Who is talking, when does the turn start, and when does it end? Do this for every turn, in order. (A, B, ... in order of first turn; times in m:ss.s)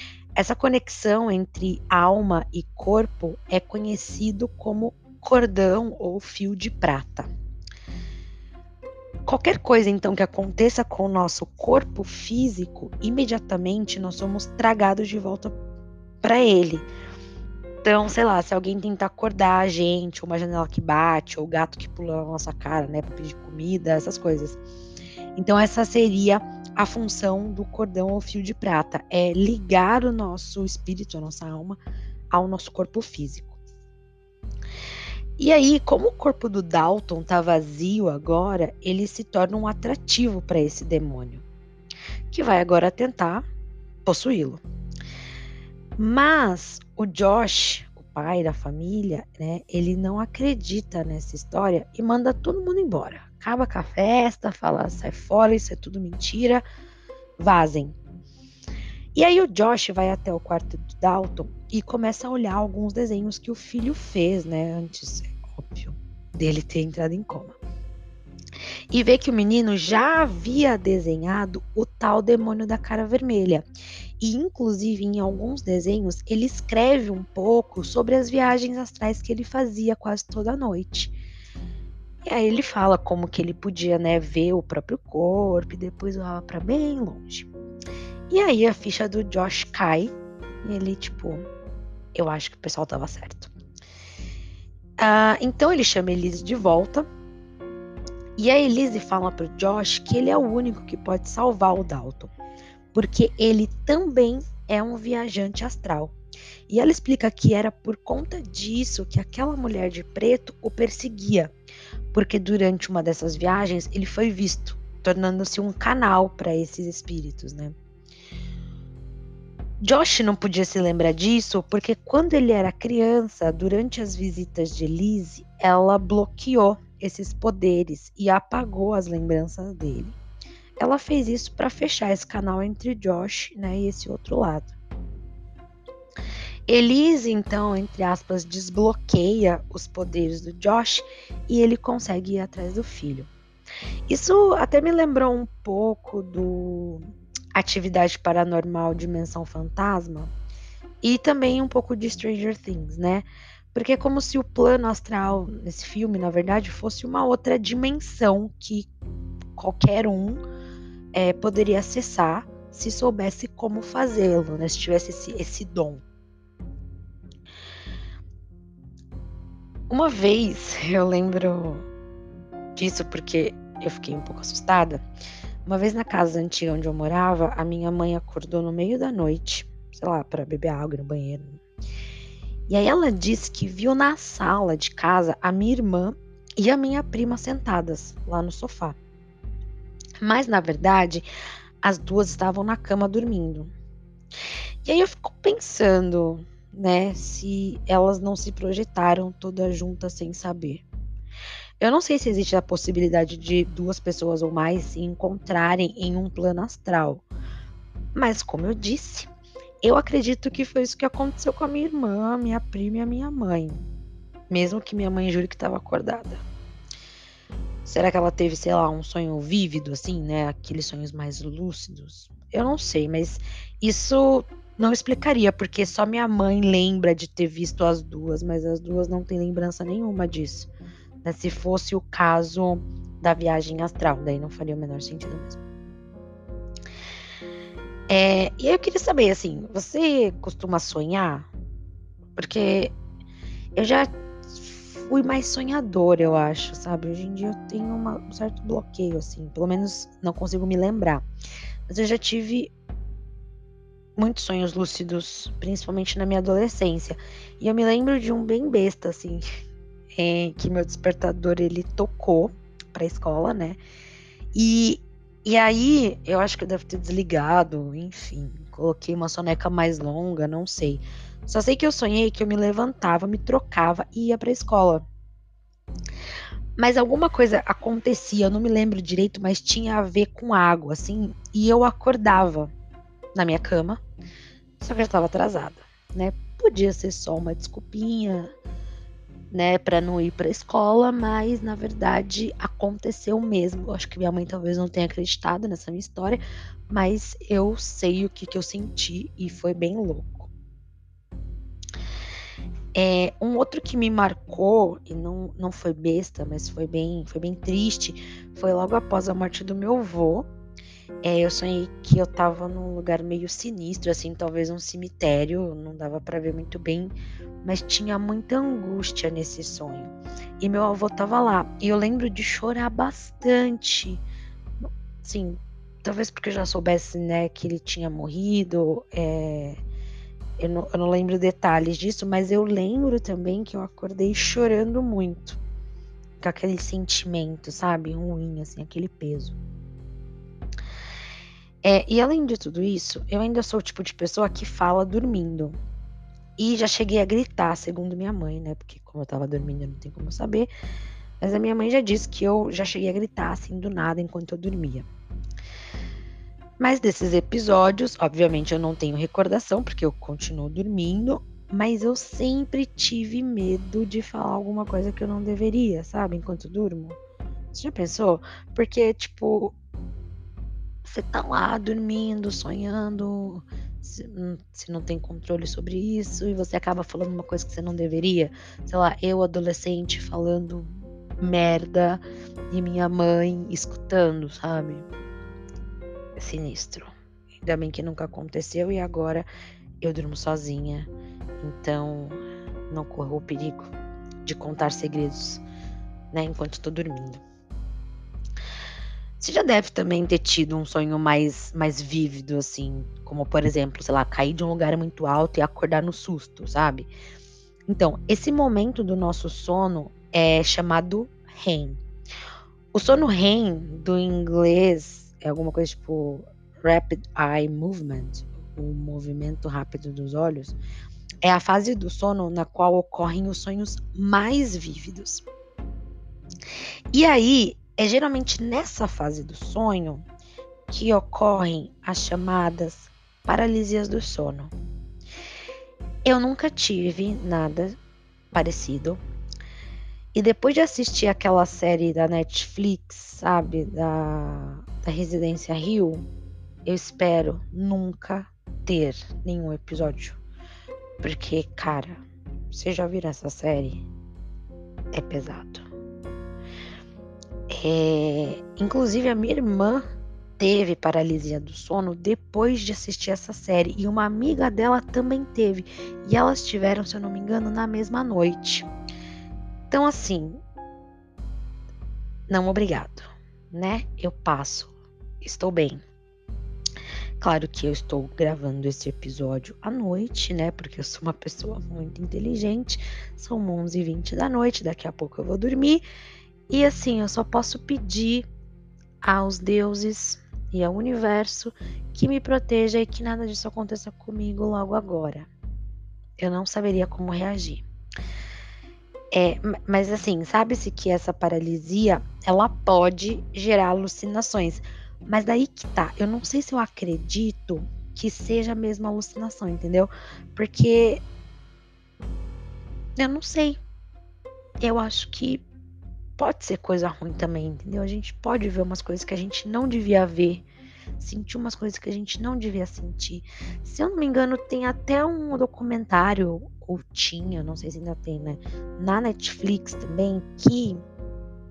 0:00.3-0:07.3 A
0:09.2-0:15.5 A
0:16.2-0:16.9 A
0:17.8-0:24.6 A
0:25.3-0:31.8 A
0:32.3-0:33.6 A
0:35.4-0:41.4 A
0:42.3-0:43.4 A
0:44.0-0:44.6 A
0:46.0-0:56.6 A
0:57.4-0:57.9 A
0:59.1-1:07.6 A
1:08.9-1:13.6 A
1:14.2-1:21.1 A
1:22.2-1:27.5 A
1:28.3-1:30.1 A
1:30.6-1:31.4 A
1:32.1-1:33.5 A
1:35.0-1:37.1 A
1:38.4-1:42.3 A
1:42.9-1:46.2 A
1:46.7-1:51.5 A
1:52.1-1:57.8 A
1:59.8-2:10.2 A
2:10.8-2:14.7 A
2:16.7-2:23.3 A
2:24.1-2:30.3 A
2:31.0-2:38.9 A
2:39.6-2:40.4 A
2:41.1-2:46.0 A
2:49.9-2:51.8 A
2:52.7-2:55.0 A
2:55.6-3:01.6 A
3:02.7-3:09.0 A
3:10.2-3:11.2 A
3:11.8-3:13.7 A
3:14.8-3:20.8 A
3:21.8-3:27.2 A
3:28.1-3:29.3 A
3:29.8-3:33.8 A
3:34.5-3:36.4 A
3:37.8-3:50.7 A
3:51.2-3:55.6 A
3:58.1-4:01.5 A
4:02.4-4:02.9 A
4:03.7-4:11.2 A
4:11.9-4:12.7 A
4:14.2-4:19.4 A
4:20.1-4:23.8 A
4:24.5-4:35.0 A
4:36.8-4:42.7 A
4:43.3-4:44.0 A
4:44.8-4:48.5 A
4:49.5-5:00.5 A
5:02.9-5:10.5 A
5:11.2-5:24.2 A
5:25.2-5:29.8 A
5:30.6-5:35.6 A
5:36.4-5:39.6 A
5:41.8-5:45.8 A
5:46.6-5:50.7 A
5:51.4-5:55.1 A
5:56.8-6:07.2 A
6:07.7-6:09.7 A
6:11.0-6:25.0 A
6:26.4-6:29.5 A
6:30.0-6:32.4 A
6:32.9-6:35.6 A
6:36.3-6:37.4 A
6:39.4-6:47.1 A
6:47.9-6:52.0 A
6:52.9-7:00.8 A
7:01.4-7:05.4 A
7:07.1-7:10.2 A
7:10.9-7:14.7 A
7:16.2-7:18.0 A
7:18.5-7:19.2 A
7:20.3-7:26.2 A
7:26.8-7:30.4 A
7:31.2-7:34.0 A
7:35.1-7:35.9 A
7:37.7-7:40.0 A
7:40.6-7:48.9 A
7:49.9-7:50.6 A
7:52.5-7:56.0 A
7:57.4-8:06.0 A
8:06.7-8:08.5 A
8:09.2-8:15.5 A
8:16.4-8:17.8 A
8:19.3-8:31.2 A
8:33.2-8:33.8 A
8:34.8-8:35.6 A
8:36.4-8:40.6 A
8:41.2-8:51.0 A